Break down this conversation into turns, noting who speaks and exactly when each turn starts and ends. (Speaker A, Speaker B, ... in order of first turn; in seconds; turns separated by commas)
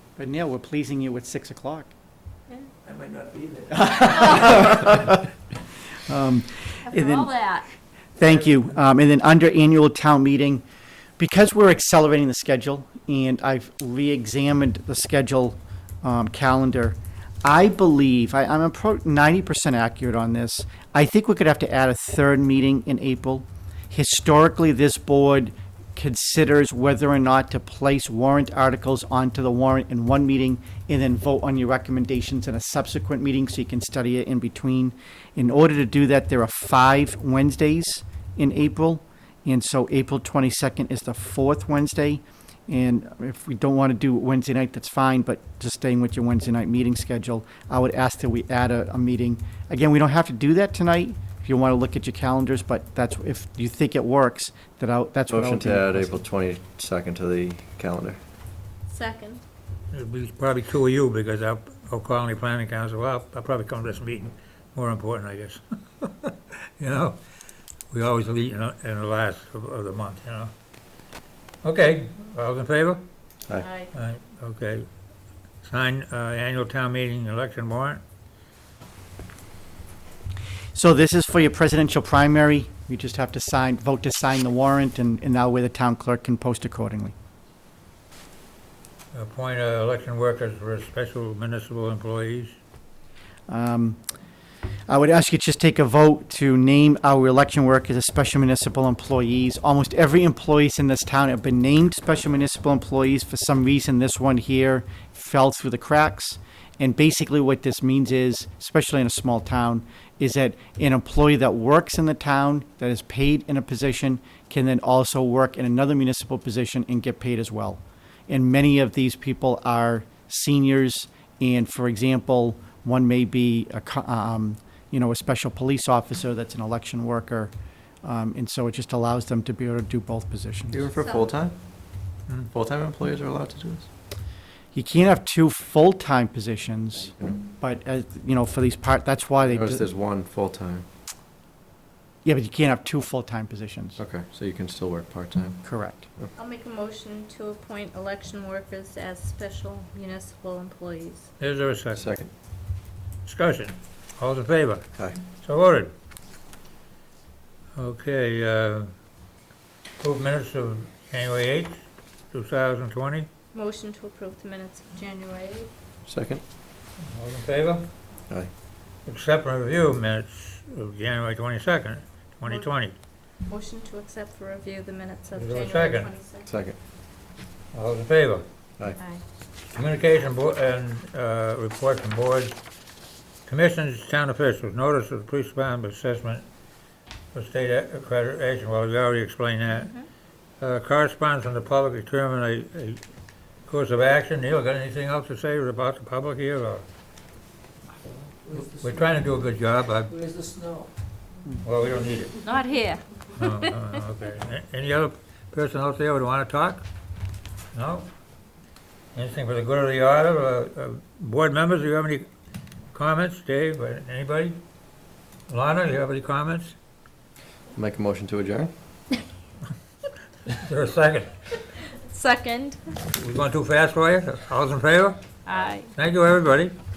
Speaker A: 0.2-1.9, Speaker B: 2.8-4.7, Speaker A: 3.8-5.2, Speaker A: 6.1-7.3, Speaker C: 6.9-7.7, Speaker A: 8.2-10.7, Speaker A: 11.2-56.2, Speaker D: 55.3-58.2, Speaker C: 58.9-59.4, Speaker E: 59.9-67.2, Speaker E: 67.9-70.5, Speaker E: 71.6-73.0, Speaker C: 73.6-73.9, Speaker E: 73.9-74.9, Speaker E: 75.6-78.0, Speaker A: 80.7-87.2, Speaker E: 89.1-92.6, Speaker A: 93.5-94.0, Speaker A: 94.9-127.5, Speaker A: 128.0-130.9, Speaker D: 130.7-131.6, Speaker C: 131.0-131.3, Speaker D: 132.5-133.9, Speaker A: 134.7-139.8, Speaker D: 139.5-140.9, Speaker A: 142.2-144.0, Speaker D: 144.0-145.6, Speaker A: 145.6-146.1, Speaker C: 146.4-151.3, Speaker E: 151.4-152.1, Speaker D: 151.9-152.3, Speaker E: 153.2-155.9, Speaker E: 157.8-158.9, Speaker E: 160.0-163.3, Speaker C: 163.5-165.7, Speaker D: 166.1-166.4, Speaker E: 167.0-167.9, Speaker E: 169.1-172.9, Speaker C: 173.5-176.5, Speaker E: 175.3-176.1, Speaker D: 176.5-176.8, Speaker E: 177.7-178.5, Speaker C: 179.0-179.2, Speaker E: 179.7-182.6, Speaker E: 183.5-186.5, Speaker E: 187.3-189.9, Speaker C: 189.7-190.0, Speaker E: 190.6-193.0, Speaker E: 193.7-196.8, Speaker B: 198.1-199.4, Speaker E: 198.8-200.1, Speaker B: 200.1-200.9, Speaker E: 201.6-202.4, Speaker C: 202.4-203.7, Speaker E: 203.4-206.8, Speaker E: 207.7-208.1, Speaker E: 209.1-212.3, Speaker E: 212.9-214.6, Speaker E: 215.5-216.8, Speaker D: 217.7-218.7, Speaker E: 220.5-221.4, Speaker C: 222.0-223.0, Speaker E: 223.2-225.4, Speaker C: 225.5-225.9, Speaker E: 225.9-226.8